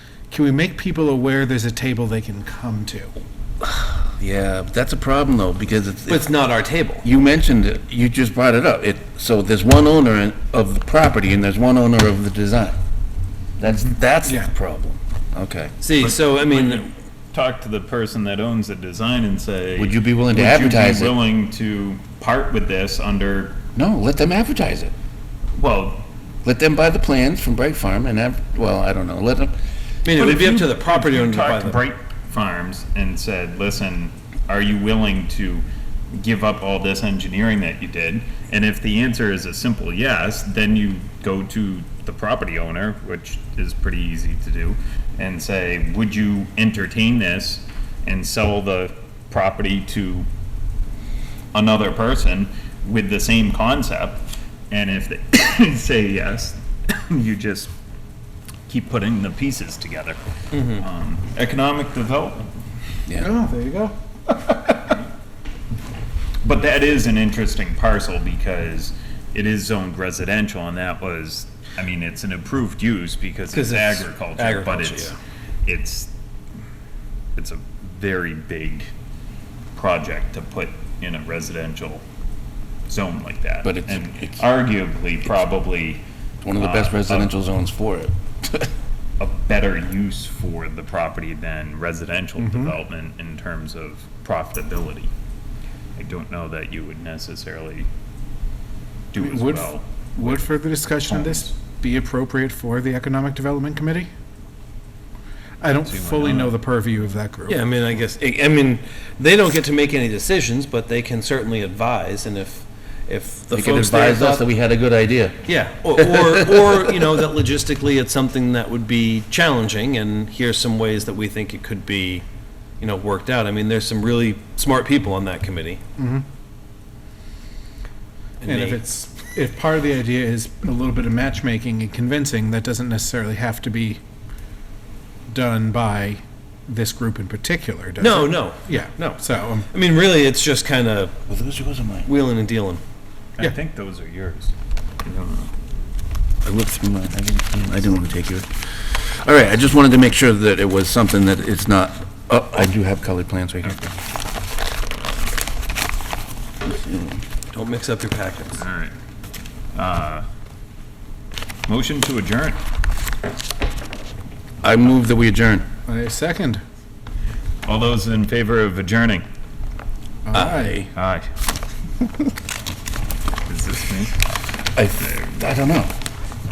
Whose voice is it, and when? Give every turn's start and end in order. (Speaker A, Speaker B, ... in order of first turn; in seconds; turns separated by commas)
Speaker A: 0.3-3.1, Speaker B: 3.8-6.3, Speaker C: 6.1-7.0, Speaker B: 7.0-12.8, Speaker B: 13.6-15.7, Speaker C: 15.8-16.9, Speaker D: 16.0-23.6, Speaker B: 19.8-21.1, Speaker B: 23.8-24.9, Speaker D: 25.6-26.0, Speaker B: 26.4-29.5, Speaker C: 30.0-31.8, Speaker D: 30.2-50.3, Speaker D: 51.5-57.7, Speaker D: 58.7-62.5, Speaker C: 60.5-60.8, Speaker A: 63.2-65.0, Speaker D: 66.4-76.1, Speaker C: 73.5-75.2, Speaker D: 77.3-78.9, Speaker D: 79.7-82.0, Speaker D: 82.9-86.0, Speaker B: 83.6-84.4, Speaker B: 86.4-88.7, Speaker D: 86.6-87.3, Speaker D: 89.2-95.1, Speaker A: 92.4-92.7, Speaker D: 96.0-97.9, Speaker D: 99.1-100.5, Speaker A: 99.2-104.1, Speaker D: 101.1-101.5, Speaker A: 105.6-107.6, Speaker D: 105.8-106.6, Speaker C: 107.5-114.4, Speaker B: 113.5-115.4, Speaker C: 115.5-122.2, Speaker B: 116.0-116.8, Speaker C: 122.8-125.8, Speaker A: 126.0-126.2, Speaker C: 128.4-128.8, Speaker A: 128.4-134.0, Speaker A: 135.3-139.7, Speaker C: 138.0-141.2, Speaker B: 141.3-142.1, Speaker C: 142.1-142.8, Speaker D: 143.4-144.5, Speaker D: 145.0-145.5, Speaker B: 146.4-153.9, Speaker B: 156.6-157.2, Speaker C: 157.5-158.6, Speaker D: 158.6-158.9, Speaker D: 159.7-160.2, Speaker D: 161.7-162.6, Speaker B: 164.6-165.7, Speaker A: 165.8-166.6, Speaker D: 167.6-169.2, Speaker A: 170.2-170.9, Speaker C: 170.3-170.7, Speaker D: 170.9-171.2, Speaker D: 173.5-174.2, Speaker B: 174.7-175.9